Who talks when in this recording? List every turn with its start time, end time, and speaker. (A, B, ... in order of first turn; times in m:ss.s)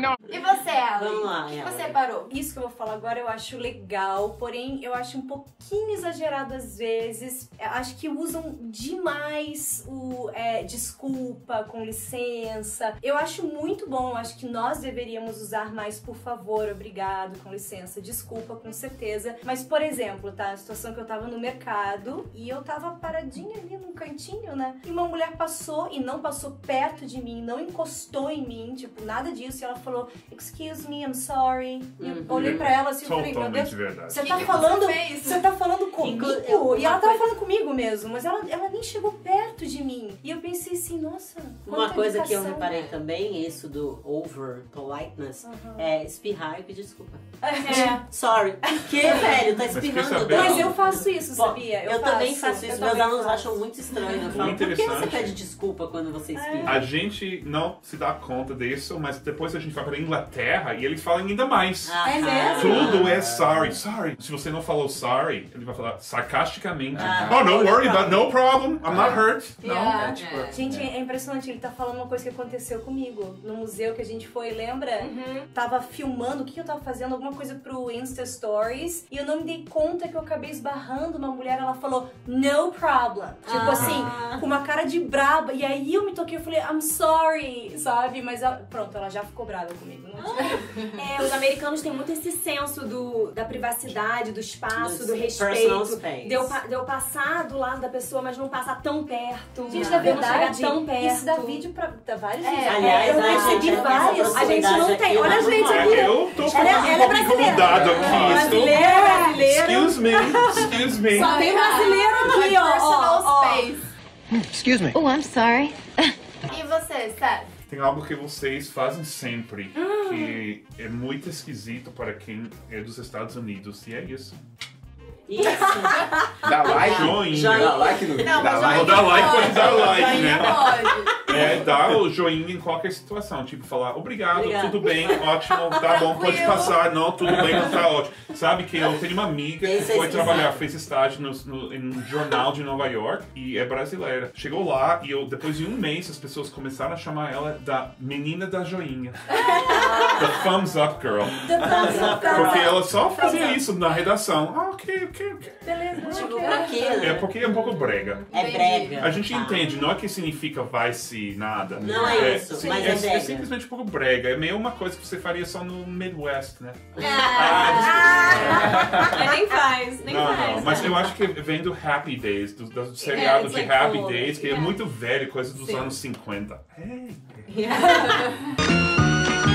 0:00.3-0:02.3 A
0:00.9-0:02.0 B
0:02.3-0:42.7 C
0:32.0-0:32.8 B
0:32.2-0:34.7 D
0:34.1-0:35.6 A
0:36.0-0:37.3 B
0:41.7-0:56.9 B
0:42.7-0:43.0 E
0:45.4-0:45.9 C
0:47.4-0:48.0 C
0:47.6-0:48.0 F
0:48.6-0:49.3 C
0:49.7-0:51.0 D
0:50.3-0:53.6 C
0:54.3-0:55.4 D
0:56.3-0:56.8 C
0:56.6-1:10.1 D
1:01.9-1:03.1 B
1:02.0-1:02.8 C
1:02.7-1:03.8 G
1:06.9-1:08.2 G
1:07.0-1:08.2 B
1:08.9-1:09.3 G
1:09.6-1:10.2 A
1:09.9-1:10.9 G
1:10.1-1:10.7 E
1:10.5-1:30.5 C
1:15.0-1:15.5 F
1:23.4-1:24.5 E
1:23.5-1:23.9 F
1:23.6-1:24.1 B
1:30.2-1:30.5 E
1:31.0-1:41.7 F
1:34.8-1:36.6 B
1:39.7-1:52.5 C
1:39.7-1:40.1 A
1:42.4-1:43.3 A
1:42.7-1:46.1 B
1:43.2-1:43.7 F
1:44.3-1:47.6 F
1:45.6-1:51.4 D
1:47.6-1:48.5 G
1:48.5-1:49.4 F
1:50.4-1:50.7 F
1:51.1-1:53.9 A
1:51.2-1:53.6 F
1:54.6-1:54.9 G
1:55.3-1:55.7 A
1:56.5-1:57.5 A
1:57.7-2:04.4 D
1:59.8-2:00.4 F
2:05.3-2:08.5 B
2:06.4-2:12.0 G
2:06.7-2:07.9 D
2:08.1-2:11.3 A
2:08.6-2:29.3 D
2:09.0-2:10.1 B
2:14.3-2:15.5 B
2:15.8-2:16.8 A
2:17.2-2:17.7 G
2:19.6-2:20.6 B
2:29.3-2:29.7 A
2:29.6-2:30.5 C
2:30.2-2:36.4 D
2:31.4-2:33.6 C
2:31.6-2:32.8 B
2:33.2-2:33.6 F
2:35.6-2:37.1 C
2:36.1-2:39.7 B
2:36.3-2:36.9 A
2:36.9-2:38.3 D
2:38.2-2:39.1 A
2:39.0-2:49.3 D
2:41.8-2:42.1 G
2:41.8-2:43.5 B
2:41.9-2:43.0 C
2:47.0-2:51.1 E
2:47.0-2:48.1 A
2:48.3-2:49.2 G
2:50.0-2:57.5 D
2:53.1-2:54.8 E
2:55.6-2:55.9 A
2:57.5-2:58.3 E
2:57.7-2:58.5 A